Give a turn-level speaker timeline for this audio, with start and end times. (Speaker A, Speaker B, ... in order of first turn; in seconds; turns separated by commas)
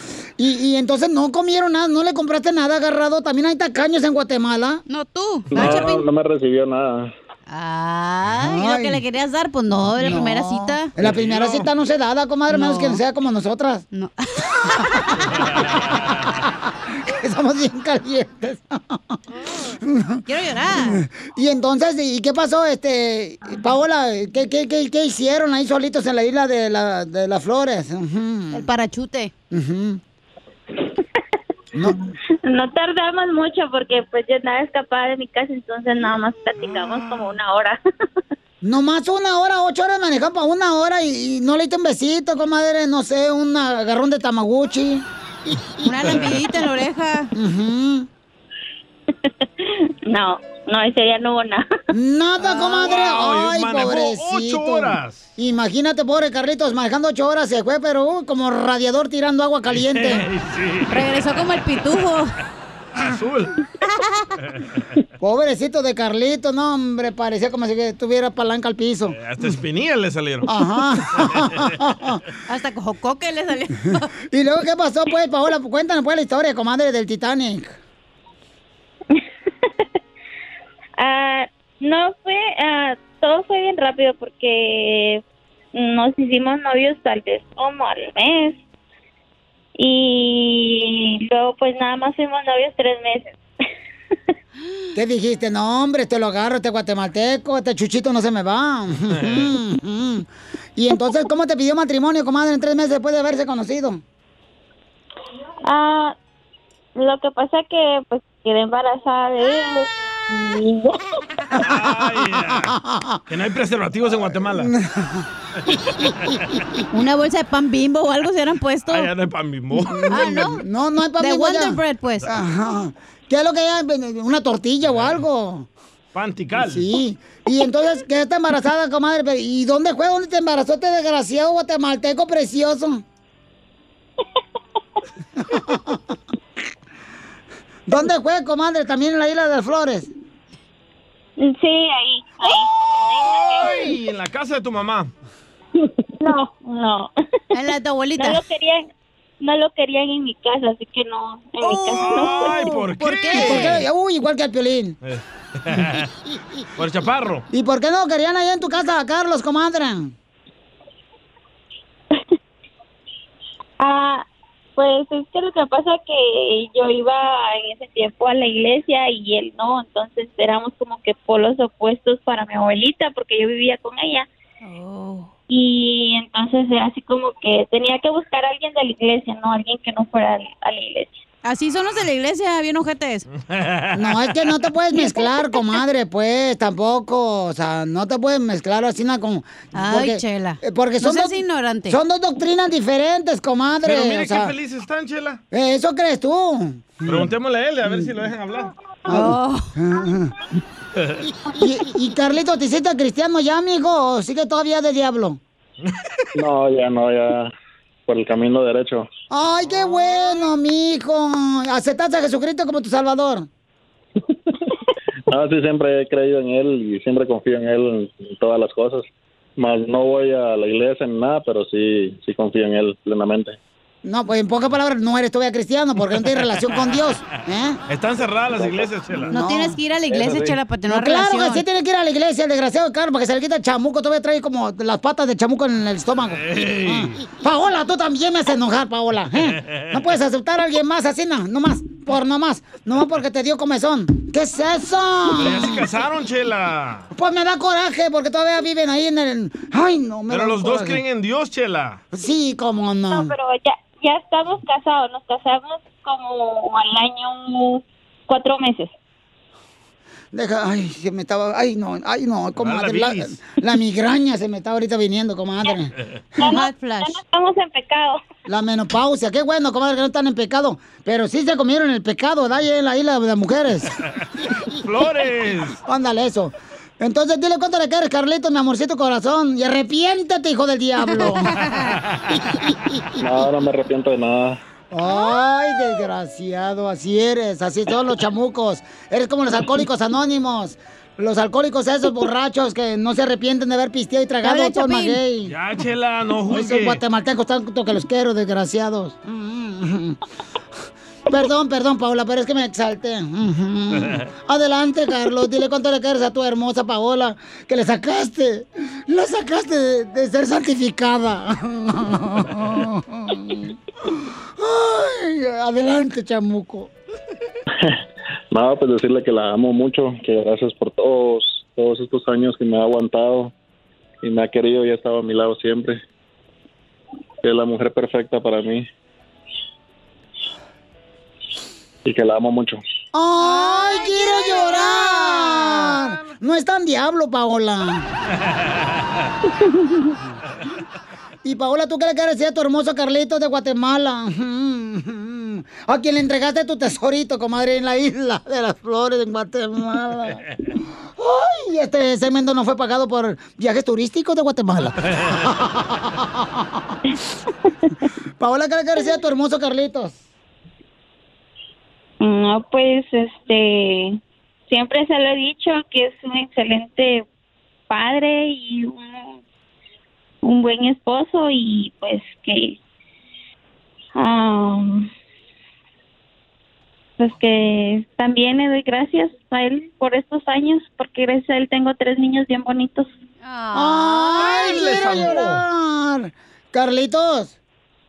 Speaker A: 0.4-4.8, Speaker B: 4.9-6.1, Speaker C: 5.5-7.1, Speaker B: 7.5-10.9, Speaker A: 8.4-9.0, Speaker A: 10.0-13.8, Speaker D: 11.0-11.7, Speaker B: 12.5-13.0, Speaker B: 13.9-15.2, Speaker D: 15.3-16.2, Speaker A: 15.3-19.2, Speaker A: 19.8-20.2, Speaker B: 20.3-21.0, Speaker A: 20.8-28.7, Speaker B: 28.5-29.3, Speaker A: 29.5-30.0, Speaker A: 31.7-32.1, Speaker E: 32.5-37.8, Speaker A: 38.6-45.1, Speaker A: 45.6-45.9, Speaker B: 45.8-47.3, Speaker A: 47.4-48.1, Speaker E: 49.1-51.6, Speaker A: 51.9-60.3, Speaker D: 52.6-55.3, Speaker D: 59.7-61.2, Speaker B: 60.9-62.3, Speaker D: 63.0-63.6, Speaker A: 65.2-69.2, Speaker D: 69.1-70.5, Speaker A: 70.5-72.2, Speaker D: 71.2-71.7, Speaker B: 72.5-74.1, Speaker A: 74.3-77.8, Speaker E: 79.1-79.9, Speaker E: 81.0-85.2, Speaker E: 85.7-88.6, Speaker E: 89.8-93.4, Speaker A: 95.0-104.0, Speaker D: 99.1-99.5, Speaker E: 105.7-106.2, Speaker E: 107.0-111.0, Speaker D: 111.5-112.8, Speaker A: 112.5-113.2, Speaker D: 113.3-114.7, Speaker A: 114.5-115.3, Speaker B: 116.9-119.1, Speaker D: 118.9-120.2, Speaker A: 119.8-125.7, Speaker B: 120.1-120.6, Speaker B: 121.2-122.3, Speaker D: 124.9-125.2, Speaker D: 126.1-126.9, Speaker A: 126.6-133.0, Speaker A: 135.4-136.1, Speaker A: 137.9-140.1, Speaker E: 141.4-143.9, Speaker D: 142.9-145.1, Speaker E: 146.2-147.1, Speaker B: 147.5-148.4, Speaker E: 148.2-148.9, Speaker E: 149.4-152.6, Speaker B: 151.6-153.8, Speaker D: 152.0-153.8, Speaker A: 153.3-155.0, Speaker D: 155.0-156.1, Speaker D: 156.8-157.4, Speaker A: 157.5-160.1, Speaker E: 163.8-174.3, Speaker B: 174.6-175.3, Speaker E: 175.5-181.2, Speaker B: 181.4-183.3, Speaker D: 183.5-184.2, Speaker A: 183.9-194.6, Speaker B: 189.8-192.0, Speaker D: 193.8-195.4, Speaker A: 195.5-197.3, Speaker D: 197.0-198.7, Speaker A: 199.1-200.3, Speaker B: 199.1-199.7, Speaker A: 201.5-205.4, Speaker C: 206.4-207.5, Speaker C: 208.1-209.1, Speaker A: 209.3-213.5, Speaker C: 215.3-219.1, Speaker C: 219.6-223.6, Speaker A: 224.1-227.8, Speaker D: 227.9-229.3, Speaker A: 229.3-229.8, Speaker B: 229.3-231.6, Speaker C: 230.1-230.6, Speaker A: 230.9-245.9, Speaker D: 236.3-237.2, Speaker D: 239.6-239.9, Speaker D: 245.3-247.1, Speaker A: 247.1-251.0, Speaker D: 250.3-252.0, Speaker A: 252.1-253.3, Speaker E: 253.1-258.9, Speaker A: 260.3-265.9, Speaker D: 262.6-263.4, Speaker E: 266.4-268.2, Speaker B: 266.4-267.2, Speaker A: 268.5-273.9, Speaker D: 274.7-275.8, Speaker A: 275.9-281.6, Speaker B: 281.2-281.9, Speaker D: 282.1-282.4, Speaker A: 282.7-283.0, Speaker C: 283.2-284.6, Speaker A: 284.9-295.6, Speaker B: 294.4-295.2, Speaker D: 295.5-297.0, Speaker A: 296.5-300.2, Speaker A: 301.3-313.8, Speaker A: 314.6-316.9, Speaker C: 318.5-323.5, Speaker C: 324.2-326.0, Speaker C: 327.4-328.9, Speaker C: 332.1-332.8, Speaker A: 333.1-338.1, Speaker B: 333.4-335.6, Speaker A: 341.4-350.4, Speaker A: 351.2-357.0, Speaker D: 355.1-355.4, Speaker A: 358.4-360.2, Speaker E: 362.2-367.3, Speaker E: 367.9-369.4, Speaker E: 370.4-372.8, Speaker E: 374.2-375.1, Speaker E: 377.2-383.1, Speaker B: 383.4-385.2, Speaker A: 383.7-387.6, Speaker D: 384.5-385.6